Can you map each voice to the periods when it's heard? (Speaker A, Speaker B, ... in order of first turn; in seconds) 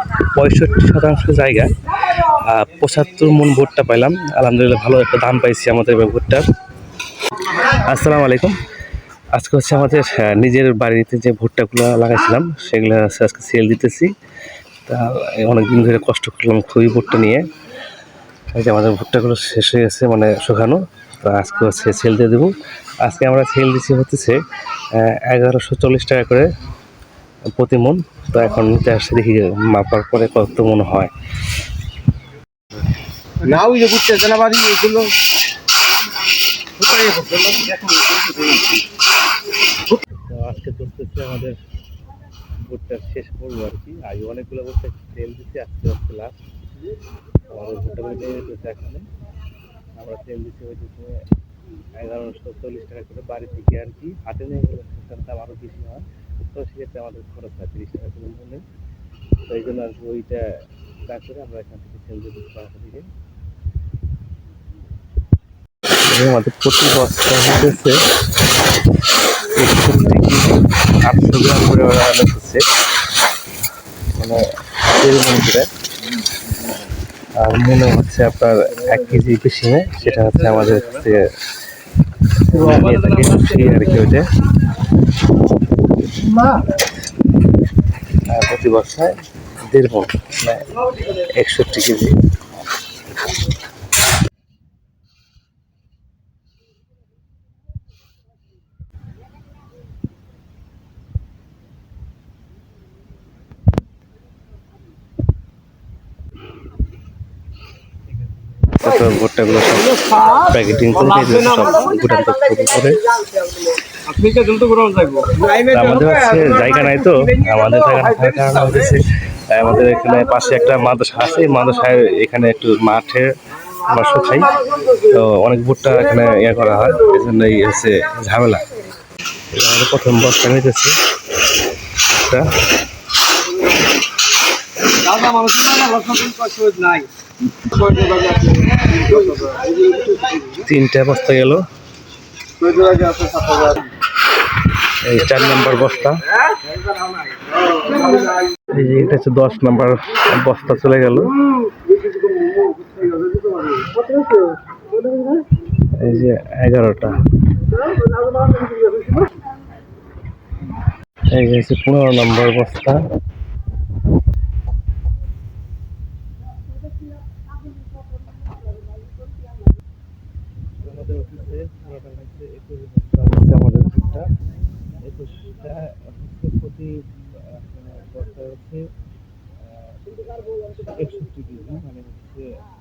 Speaker A: 0.2-6.5, 7.4-8.6, 9.3-14.1, 14.8-17.5, 18.5-26.5, 27.6-31.1, 40.3-41.6, 42.7-46.4, 47.5-49.1, 50.0-51.2, 52.0-58.6, 59.5-60.4, 61.1-63.1, 66.0-68.0, 69.4-72.6, 74.1-75.7, 77.3-81.3, 82.3-84.3, 88.3-92.2, 108.6-113.4, 115.5-128.7, 129.5-131.0, 132.0-132.6, 140.5-141.6, 145.0-146.3, 148.1-151.3, 155.8-157.2, 161.3-163.0, 170.8-174.3, 175.0-178.9, 179.6-182.6
Speaker B: 33.4-35.1, 36.8-38.8, 82.5-83.9, 110.2-111.7, 113.9-115.8, 134.9-137.1, 137.6-140.4, 142.6-143.9, 152.3-152.7